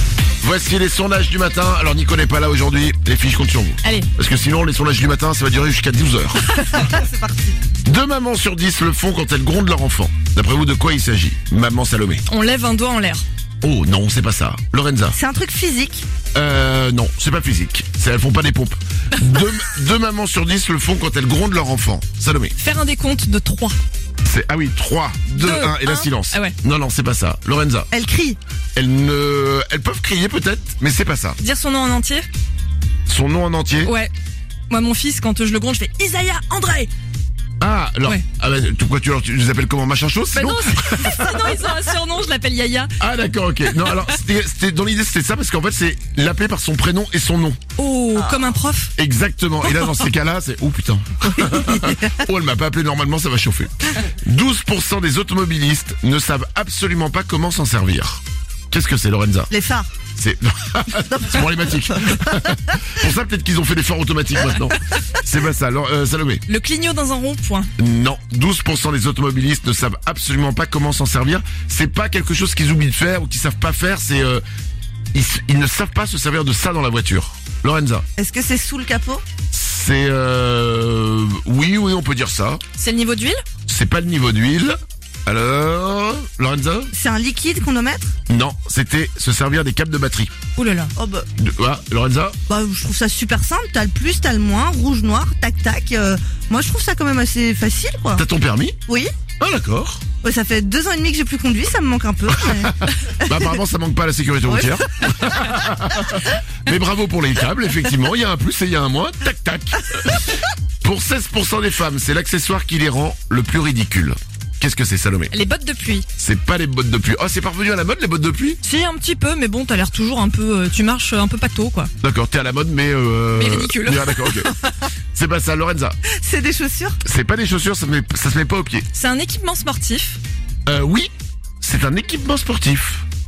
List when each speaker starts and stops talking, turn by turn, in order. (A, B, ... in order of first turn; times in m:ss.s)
0:00.4-0:06.4 A
0:03.8-0:04.1 B
0:06.6-0:07.6 C
0:07.8-0:12.2 A
0:12.3-0:13.2 B
0:13.6-0:15.2 A
0:15.1-0:16.0 C
0:16.3-0:22.5 A
0:22.6-0:23.8 B
0:24.2-0:27.9 A
0:25.4-0:26.5 B
0:27.9-0:28.4 C
0:28.7-0:31.4 A
0:31.4-0:32.3 B
0:33.1-0:33.9 A
0:33.8-0:34.1 B
0:34.7-0:36.9 B
0:37.6-0:41.6 A
0:40.3-0:42.9 B
0:43.0-0:47.6 A
0:43.7-0:44.1 B
0:47.8-0:48.9 B
0:49.0-0:59.5 A
0:59.5-0:59.9 C
1:00.2-1:06.4 A
1:01.2-1:02.2 C
1:06.5-1:07.7 B
1:07.8-1:14.4 A
1:15.1-1:18.0 A
1:18.2-1:19.2 C
1:19.5-1:22.6 A
1:22.8-1:23.4 B
1:23.7-1:26.9 A
1:26.9-1:28.1 C
1:28.3-1:30.3 A
1:30.6-1:30.9 B
1:31.0-1:31.3 C
1:31.4-1:32.4 A
1:32.5-1:38.2 C
1:38.1-1:38.8 A
1:39.4-1:40.0 A
1:40.2-1:43.5 C
1:42.6-1:55.3 A
1:44.5-1:44.7 C
1:55.3-1:56.0 B
1:56.2-1:58.6 A
1:58.6-2:01.9 B
2:02.0-2:04.5 A
2:03.3-2:04.5 B
2:05.1-2:06.0 A
2:06.1-2:07.0 C
2:07.0-2:08.9 A
2:08.9-2:10.2 B
2:10.6-2:13.0 A